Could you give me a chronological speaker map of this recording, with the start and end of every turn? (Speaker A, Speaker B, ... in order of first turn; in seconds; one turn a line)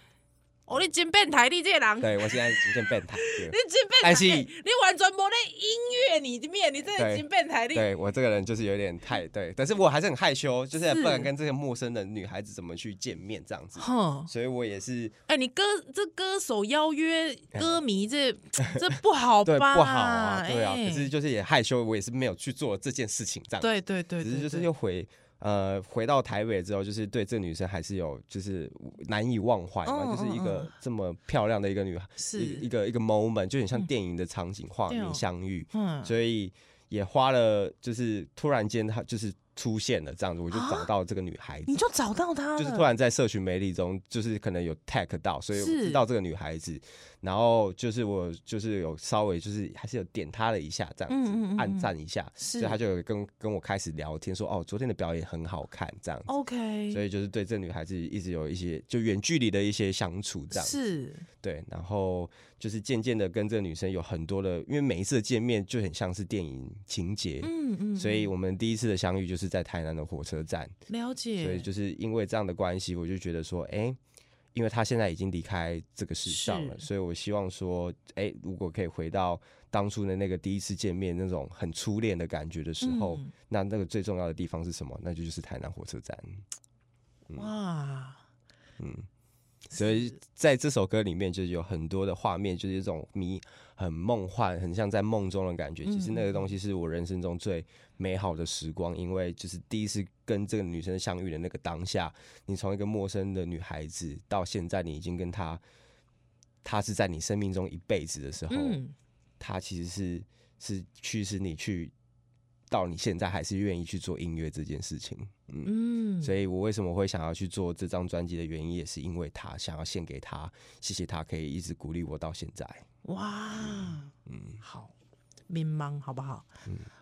Speaker A: 0.7-2.5
Speaker B: 2.0-4.5
Speaker A: 3.2-7.9
Speaker B: 7.0-15.2
Speaker A: 10.8-11.3
Speaker A: 13.8-14.3
Speaker A: 15.3-21.1
Speaker B: 17.6-17.8
Speaker B: 18.6-18.9
Speaker B: 19.4-41.7
Speaker A: 23.6-24.7
Speaker A: 29.8-30.7
Speaker A: 32.2-32.6
Speaker A: 34.9-36.1
Speaker A: 40.5-40.9
Speaker A: 41.7-42.9
Speaker B: 42.6-56.3
Speaker A: 45.5-46.0
Speaker A: 51.1-52.8
Speaker A: 56.3-57.0
Speaker B: 56.9-60.8
Speaker A: 60.5-61.3
Speaker B: 61.4-70.7
Speaker A: 67.4-68.3
Speaker A: 70.9-71.7
Speaker B: 71.4-74.0
Speaker B: 74.5-86.4
Speaker A: 76.3-76.9
Speaker A: 82.8-83.3
Speaker A: 87.3-88.2
Speaker B: 88.8-89.1
Speaker B: 89.7-105.6
Speaker A: 89.7-90.1
Speaker A: 95.8-96.5
Speaker B: 106.6-108.8
Speaker A: 108.5-108.9
Speaker B: 109.4-111.9
Speaker B: 112.7-122.9
Speaker A: 115.6-116.3
Speaker A: 123.0-124.9
Speaker B: 123.6-124.6
Speaker A: 125.5-126.5